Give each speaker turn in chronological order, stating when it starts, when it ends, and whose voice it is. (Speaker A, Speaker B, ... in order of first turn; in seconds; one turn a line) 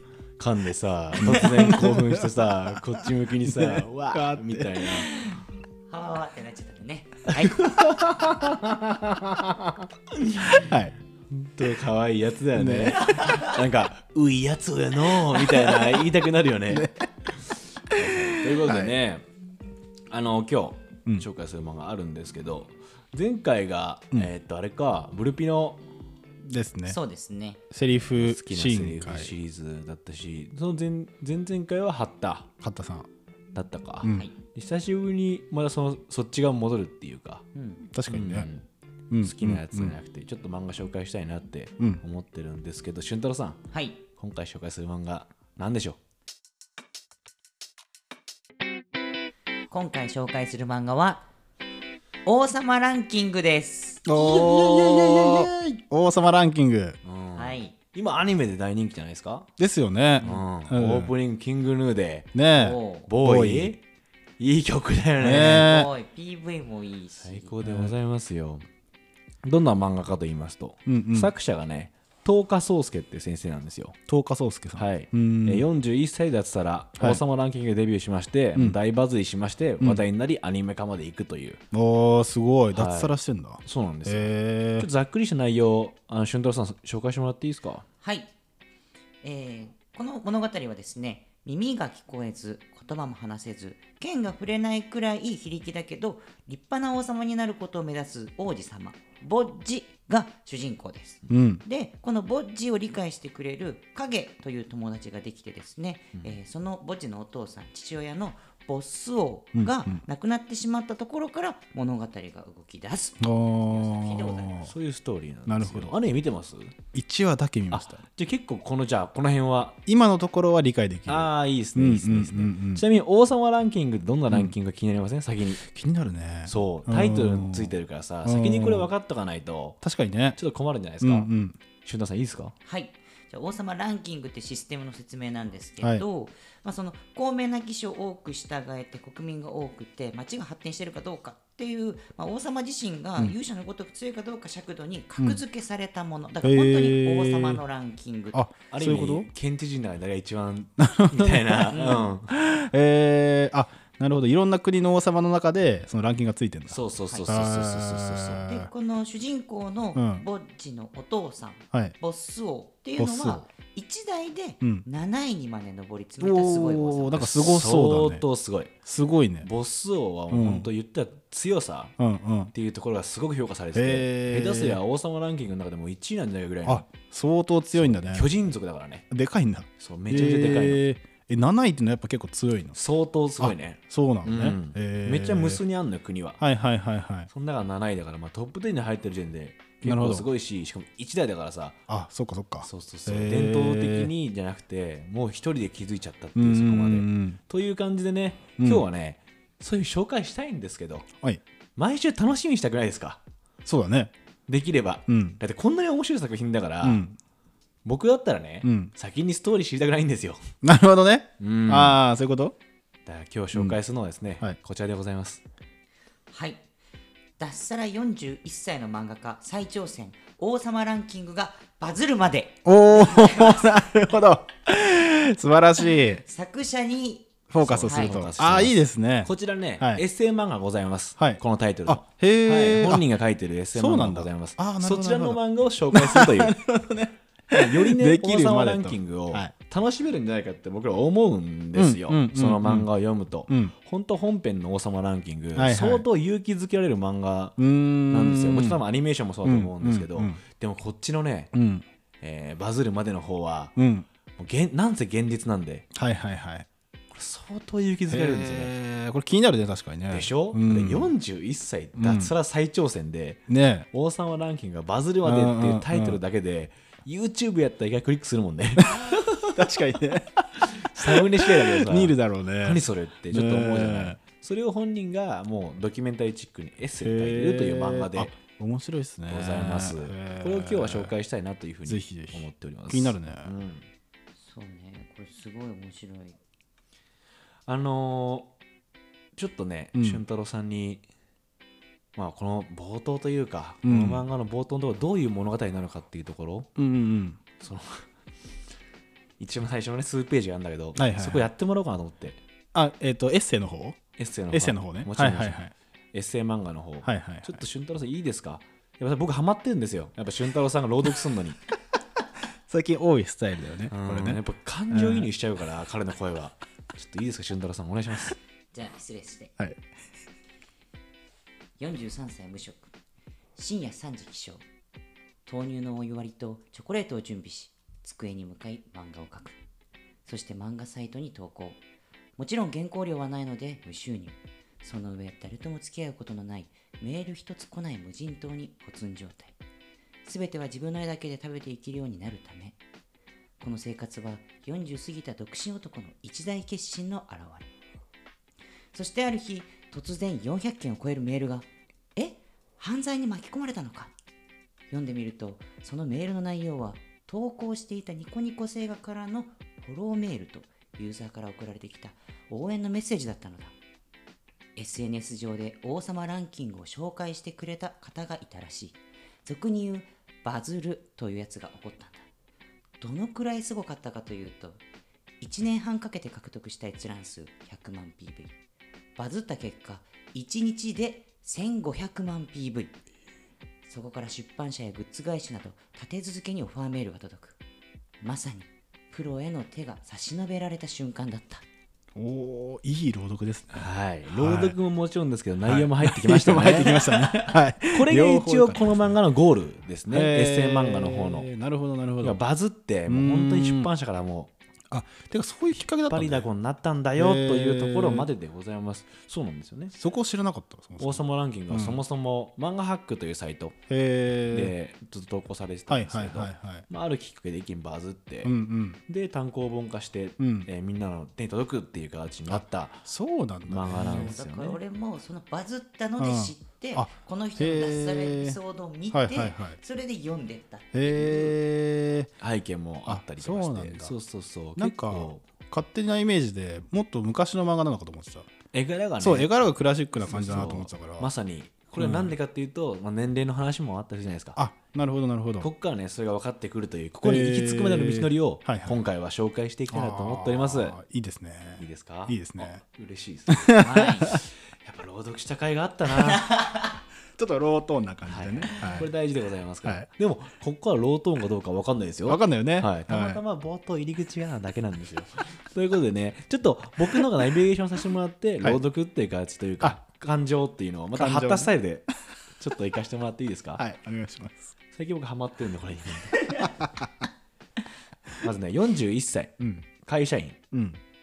Speaker A: 0.4-5.1
Speaker B: 1.2-5.1
Speaker C: 5.9-7.6
Speaker A: 7.7-10.7
Speaker B: 10.5-10.9
Speaker A: 11.3-16.9
Speaker B: 12.5-13.4
Speaker C: 13.2-13.5
Speaker B: 15.4-16.0
Speaker B: 16.7-17.1
Speaker A: 17.9-19.2
Speaker B: 17.9-19.0
Speaker A: 20.1-25.8
Speaker B: 26.4-27.0
Speaker C: 26.9-27.6
Speaker B: 27.7-29.3
Speaker A: 27.9-32.5
Speaker B: 32.6-33.1
Speaker A: 33.5-37.5
Speaker B: 34.0-34.3
Speaker C: 34.1-34.3
Speaker C: 37.5-37.8
Speaker B: 37.9-38.5
Speaker A: 38.1-38.6
Speaker B: 39.1-40.0
Speaker A: 39.2-43.6
Speaker C: 43.7-44.0
Speaker A: 44.2-46.0
Speaker C: 49.7-51.3
Speaker C: 52.2-55.2
Speaker B: 54.0-57.0
Speaker A: 55.2-55.5
Speaker A: 57.0-59.5
Speaker C: 57.4-57.8
Speaker B: 59.6-61.1
Speaker A: 60.2-62.4
Speaker B: 62.4-63.8
Speaker C: 62.5-63.1
Speaker A: 63.1-63.8
Speaker A: 64.4-65.8
Speaker B: 65.2-65.9
Speaker C: 65.3-67.5
Speaker A: 67.2-68.7
Speaker B: 67.6-67.9
Speaker A: 69.4-74.0
Speaker B: 70.9-71.3
Speaker B: 74.1-75.7
Speaker A: 74.8-81.6
Speaker B: 81.7-84.9
Speaker A: 82.7-87.9
Speaker C: 88.0-88.3
Speaker C: 89.2-114.7
Speaker B: 101.3-101.6
Speaker B: 109.5-110.0
Speaker B: 113.2-114.7
Speaker A: 114.6-116.8
Speaker B: 115.5-116.0
Speaker B: 116.9-118.0
Speaker A: 117.7-119.8
Speaker B: 119.9-122.8
Speaker A: 121.1-125.6
Speaker B: 125.6-128.9
Speaker A: 126.5-129.8
Speaker B: 129.8-130.4
Speaker A: 130.4-131.3
Speaker B: 131.0-131.6
Speaker A: 131.8-132.5
Speaker C: 132.7-148.4
Speaker B: 146.4-147.6
Speaker B: 148.3-149.3
Speaker A: 148.7-152.3
Speaker B: 150.8-158.7
Speaker C: 151.7-152.1
Speaker A: 156.7-158.5
Speaker C: 157.1-157.3
Speaker C: 158.4-167.4
Speaker B: 159.9-160.2
Speaker B: 163.0-163.4
Speaker B: 166.2-168.2
Speaker A: 167.2-168.7
Speaker B: 168.9-169.5
Speaker A: 169.4-171.9
Speaker B: 170.3-170.7
Speaker B: 172.0-172.5
Speaker A: 172.5-176.9
Speaker B: 173.7-174.8
Speaker B: 176.7-178.3
Speaker A: 177.7-179.1
Speaker B: 179.1-182.8
Speaker A: 179.8-180.8
Speaker A: 182.8-186.4
Speaker B: 183.4-185.6
Speaker B: 186.4-187.3
Speaker A: 187.3-191.8
Speaker B: 189.8-190.3
Speaker B: 191.9-194.1
Speaker A: 192.6-201.1
Speaker B: 196.4-197.4
Speaker B: 198.6-198.8
Speaker A: 201.8-203.2
Speaker B: 203.7-204.1
Speaker A: 204.5-207.0
Speaker B: 205.1-205.4
Speaker B: 206.8-207.2
Speaker A: 207.8-210.4
Speaker B: 208.6-208.9
Speaker B: 210.6-212.6
Speaker A: 211.4-212.0
Speaker A: 213.1-215.4
Speaker C: 216.3-216.6
Speaker C: 217.4-223.7
Speaker B: 222.7-226.2
Speaker C: 226.2-228.2
Speaker B: 227.5-230.0
Speaker A: 227.6-236.6
Speaker B: 231.2-233.1
Speaker B: 233.7-239.5
Speaker A: 237.5-247.6
Speaker B: 241.8-242.9
Speaker B: 243.5-243.7
Speaker B: 245.6-246.1
Speaker B: 247.6-248.8
Speaker A: 248.1-251.5
Speaker B: 249.4-250.4
Speaker B: 251.5-251.9
Speaker A: 252.2-253.8
Speaker B: 253.8-254.1
Speaker A: 254.4-255.8
Speaker B: 255.9-256.7
Speaker A: 257.1-258.7
Speaker B: 258.1-261.1
Speaker A: 260.1-269.6
Speaker B: 262.0-262.3
Speaker B: 263.5-263.9
Speaker B: 265.2-266.2
Speaker B: 268.8-274.2
Speaker A: 270.7-278.3
Speaker B: 277.0-281.1
Speaker A: 279.3-283.9
Speaker B: 281.9-283.5
Speaker C: 284.4-286.4
Speaker A: 287.7-288.5
Speaker A: 289.4-291.0
Speaker B: 289.9-290.2
Speaker A: 292.2-296.7
Speaker B: 293.9-294.2
Speaker B: 296.8-297.4
Speaker A: 297.6-298.1
Speaker A: 299.4-302.4
Speaker B: 301.0-301.5
Speaker B: 302.7-304.0
Speaker A: 304.2-305.6
Speaker B: 304.5-305.7
Speaker A: 306.1-311.6
Speaker B: 307.0-307.6
Speaker B: 312.7-314.4
Speaker A: 313.9-318.4
Speaker B: 314.9-315.3
Speaker C: 318.7-319.5
Speaker C: 321.8-322.9
Speaker C: 323.6-324.6
Speaker C: 325.5-329.6
Speaker C: 330.3-331.8
Speaker C: 332.4-339.6
Speaker C: 340.2-342.8
Speaker C: 343.6-347.7
Speaker C: 348.9-354.1
Speaker C: 354.9-363.8
Speaker C: 364.8-372.3
Speaker C: 373.0-374.8
Speaker C: 375.4-378.6
Speaker C: 379.2-383.0
Speaker C: 383.9-387.6
Speaker C: 388.2-391.6
Speaker B: 392.1-394.8
Speaker A: 393.7-401.5
Speaker B: 395.6-399.2
Speaker B: 400.1-402.4
Speaker A: 402.2-404.5
Speaker B: 403.1-403.9
Speaker B: 404.9-406.5
Speaker A: 406.1-409.9
Speaker B: 407.2-408.3
Speaker B: 409.9-412.0
Speaker A: 411.0-413.8
Speaker B: 413.9-414.7
Speaker A: 414.5-418.5
Speaker B: 415.9-416.9
Speaker B: 418.4-419.0
Speaker A: 419.1-423.1
Speaker B: 420.4-420.7
Speaker B: 422.5-424.4
Speaker A: 423.7-424.8
Speaker C: 423.9-431.2
Speaker B: 426.2-428.6
Speaker B: 429.1-429.8
Speaker B: 430.9-432.3
Speaker A: 432.4-435.4
Speaker B: 433.1-434.1
Speaker B: 434.8-438.5
Speaker A: 438.7-439.5
Speaker B: 439.2-441.3
Speaker A: 440.2-444.6
Speaker B: 442.0-442.4
Speaker B: 444.6-445.7
Speaker A: 445.6-451.0
Speaker B: 447.2-449.0
Speaker B: 449.9-452.8
Speaker A: 451.8-456.5
Speaker B: 453.5-454.4
Speaker C: 453.8-454.4
Speaker C: 456.5-456.8
Speaker B: 457.4-459.1
Speaker A: 458.3-473.8
Speaker B: 462.3-463.4
Speaker B: 471.1-471.7
Speaker B: 473.8-474.7
Speaker A: 474.9-476.7
Speaker B: 476.5-477.1
Speaker A: 478.4-480.6
Speaker B: 479.6-479.9
Speaker B: 480.7-481.0